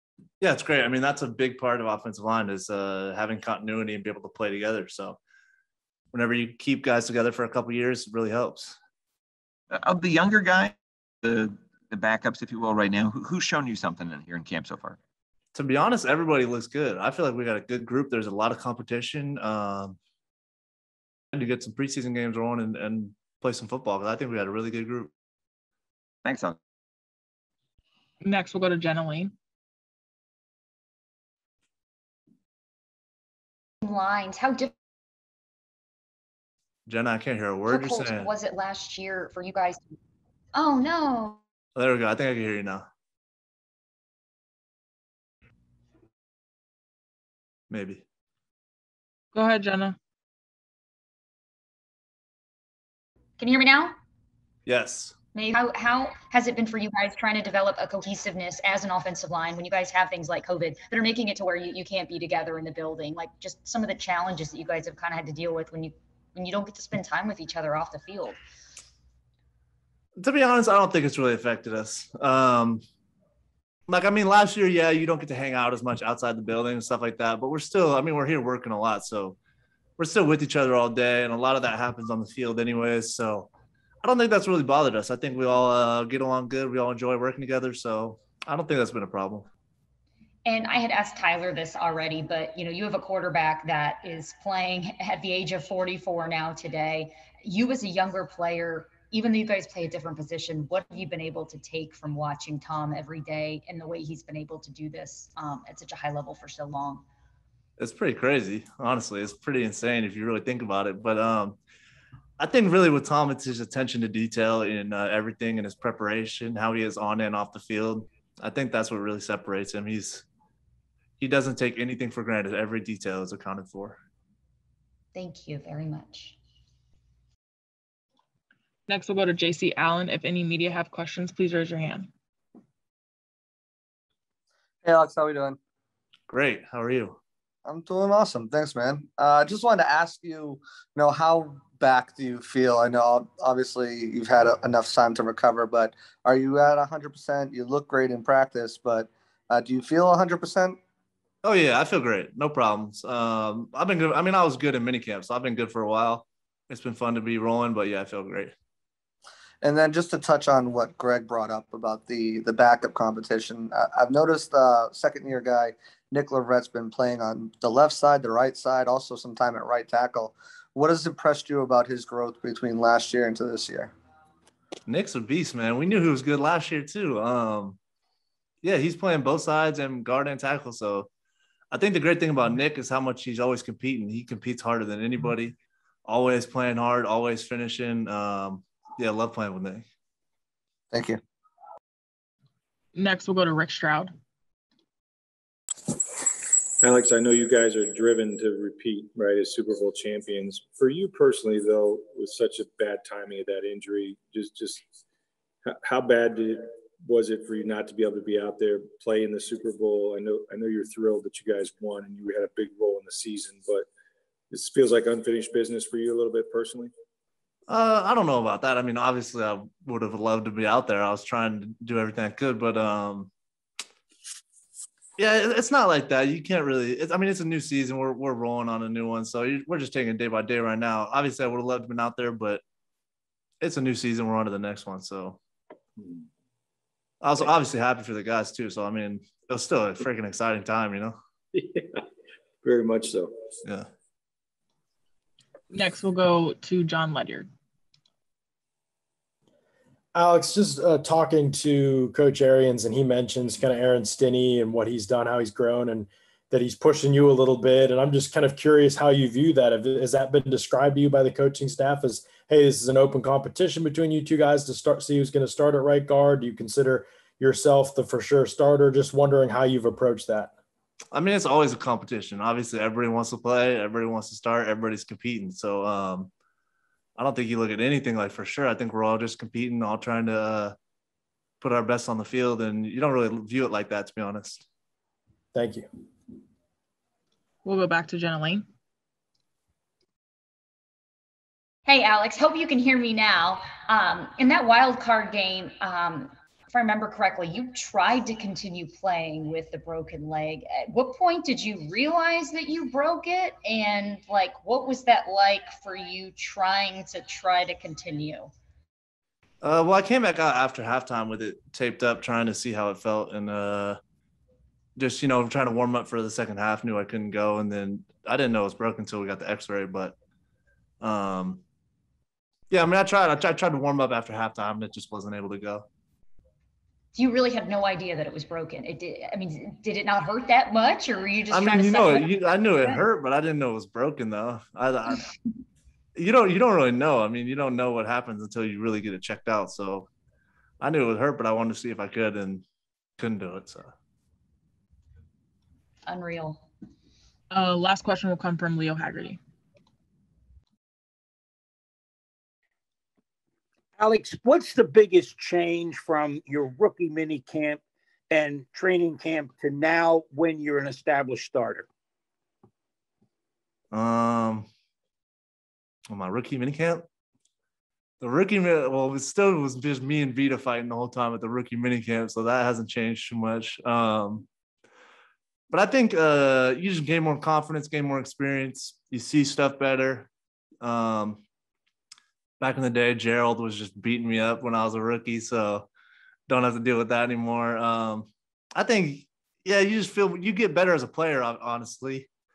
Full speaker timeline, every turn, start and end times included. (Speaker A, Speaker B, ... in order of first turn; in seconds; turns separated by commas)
Speaker A: 0.4-5.2, Speaker A: 6.1-8.8, Speaker B: 9.7-15.0, Speaker A: 15.5-20.0, Speaker A: 21.3-25.1, Speaker B: 26.2-26.6, Speaker C: 28.2-29.3, Speaker D: 33.8-34.7, Speaker A: 36.9-38.3, Speaker D: 37.7-40.0, Speaker D: 40.5-41.4, Speaker A: 41.8-42.9, Speaker A: 47.7-48.0, Speaker C: 49.3-50.0, Speaker D: 53.4-53.9, Speaker A: 54.7-55.1, Speaker D: 55.3-68.4, Speaker A: 70.2-72.8, Speaker A: 73.9-79.4, Speaker A: 80.0-83.5, Speaker A: 84.0-89.5, Speaker D: 90.5-107.0, Speaker A: 107.8-111.6, Speaker A: 112.4-120.2, Speaker A: 121.2-124.0, Speaker D: 125.2-126.4, Speaker C: 128.9-132.1, Speaker E: 134.8-135.6, Speaker A: 136.3-137.2, Speaker E: 137.7-150.8, Speaker A: 151.4-158.5, Speaker E: 159.6-173.9, Speaker A: 174.9-177.8, Speaker A: 178.6-181.1, Speaker A: 181.7-185.6, Speaker A: 186.1-189.8, Speaker E: 190.9-191.2, Speaker C: 192.9-194.1, Speaker F: 196.8-204.8, Speaker F: 205.7-213.9, Speaker F: 214.5-216.9, Speaker A: 217.7-223.3, Speaker A: 225.2-232.6, Speaker A: 233.6-235.4, Speaker A: 237.2-241.2, Speaker F: 241.5-242.0, Speaker F: 242.6-243.3, Speaker C: 245.7-247.5, Speaker G: 250.2-270.5, Speaker A: 271.1-276.3, Speaker A: 277.2-280.8, Speaker A: 281.6-284.6, Speaker G: 285.6-285.9, Speaker C: 287.6-288.6, Speaker D: 291.9-308.5, Speaker A: 309.6-314.0, Speaker A: 315.0-320.1, Speaker A: 321.0-321.6, Speaker A: 322.7-325.9, Speaker D: 327.1-333.0, Speaker A: 331.5-335.2, Speaker A: 336.2-340.1, Speaker A: 340.8-342.6, Speaker A: 343.2-343.9, Speaker D: 346.1-346.6, Speaker C: 347.5-349.4, Speaker H: 354.0-361.9, Speaker A: 363.9-364.7, Speaker A: 366.1-367.0, Speaker A: 368.2-374.5, Speaker A: 375.7-380.3, Speaker A: 380.8-381.4, Speaker A: 382.6-385.9, Speaker A: 386.5-392.3